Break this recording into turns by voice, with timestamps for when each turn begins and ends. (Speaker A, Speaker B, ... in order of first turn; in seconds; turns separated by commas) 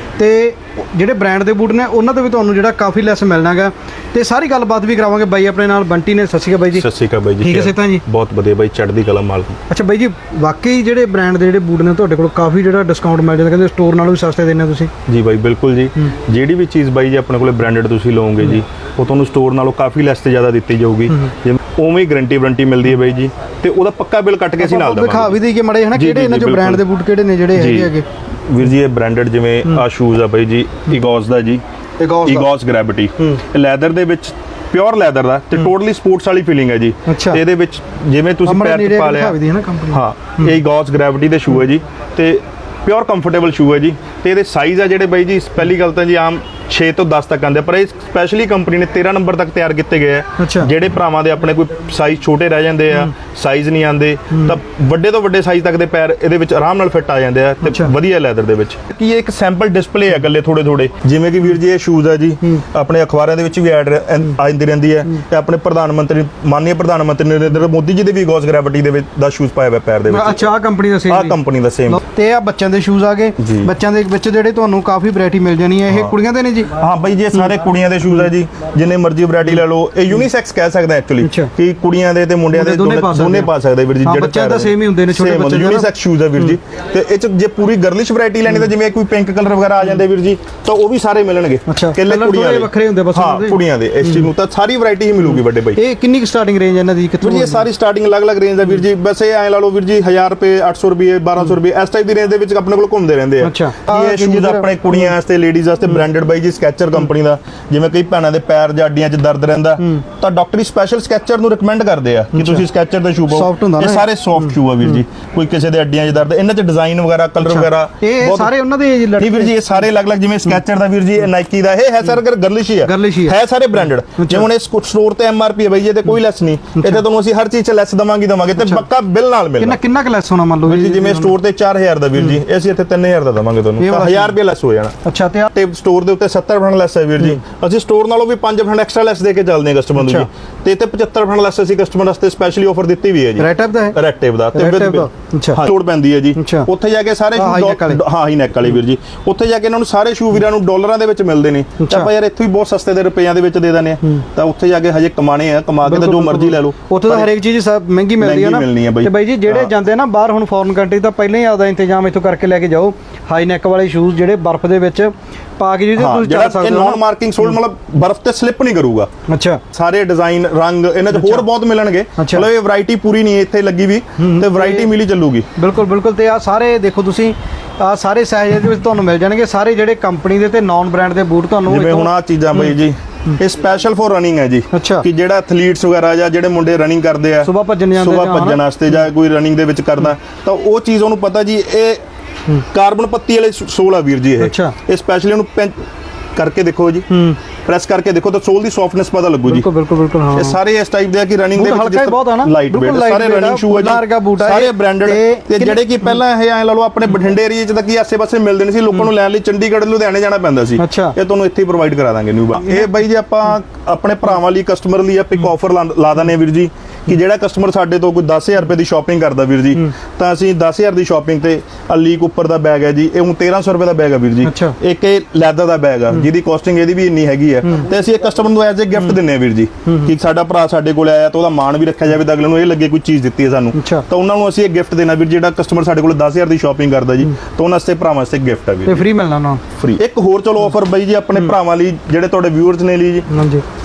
Speaker A: 0.2-6.8, Speaker B: 6.7-9.6, Speaker A: 7.4-8.0, Speaker A: 9.7-14.9, Speaker B: 15.1-25.4, Speaker A: 24.6-28.0, Speaker B: 25.9-26.8, Speaker B: 27.5-27.9, Speaker B: 28.5-31.6, Speaker A: 32.0-32.5, Speaker B: 32.2-39.3, Speaker A: 37.1-37.4, Speaker A: 38.5-40.4, Speaker B: 39.9-70.5, Speaker A: 50.4-50.7, Speaker A: 57.6-57.9, Speaker A: 70.1-71.4, Speaker B: 71.1-72.0, Speaker A: 71.9-76.7, Speaker B: 73.4-73.7, Speaker B: 76.7-95.8, Speaker A: 81.2-81.5, Speaker A: 82.5-86.5, Speaker A: 91.7-94.3, Speaker A: 95.7-97.6, Speaker B: 97.2-118.5, Speaker A: 103.4-105.1, Speaker A: 112.3-112.6, Speaker A: 113.3-114.1, Speaker A: 117.4-119.7, Speaker B: 119.2-129.8, Speaker A: 122.8-123.4, Speaker A: 124.2-124.5, Speaker A: 128.6-128.8, Speaker A: 129.6-131.3, Speaker B: 130.7-134.9, Speaker A: 133.8-134.3, Speaker A: 135.0-135.5, Speaker B: 135.5-157.3, Speaker A: 140.0-140.2, Speaker A: 143.4-144.0, Speaker A: 144.5-145.6, Speaker A: 146.4-146.7, Speaker A: 147.3-148.0, Speaker A: 151.8-152.1, Speaker A: 155.8-167.0, Speaker B: 158.2-159.7, Speaker B: 166.0-169.1, Speaker A: 169.3-169.6, Speaker B: 169.7-175.5, Speaker A: 171.1-171.5, Speaker A: 172.2-172.5, Speaker A: 174.2-174.9, Speaker A: 175.6-182.8, Speaker B: 181.7-192.0, Speaker A: 184.7-185.0, Speaker A: 187.4-188.6, Speaker B: 192.7-195.7, Speaker A: 194.4-194.8, Speaker B: 196.3-197.1, Speaker A: 197.1-197.4, Speaker B: 197.6-199.7, Speaker A: 199.5-200.6, Speaker B: 200.3-239.0, Speaker A: 201.5-206.2, Speaker A: 210.8-211.2, Speaker A: 212.6-212.9, Speaker A: 224.4-224.8, Speaker A: 233.7-234.0, Speaker A: 238.9-239.6, Speaker B: 239.8-243.3, Speaker A: 243.3-243.6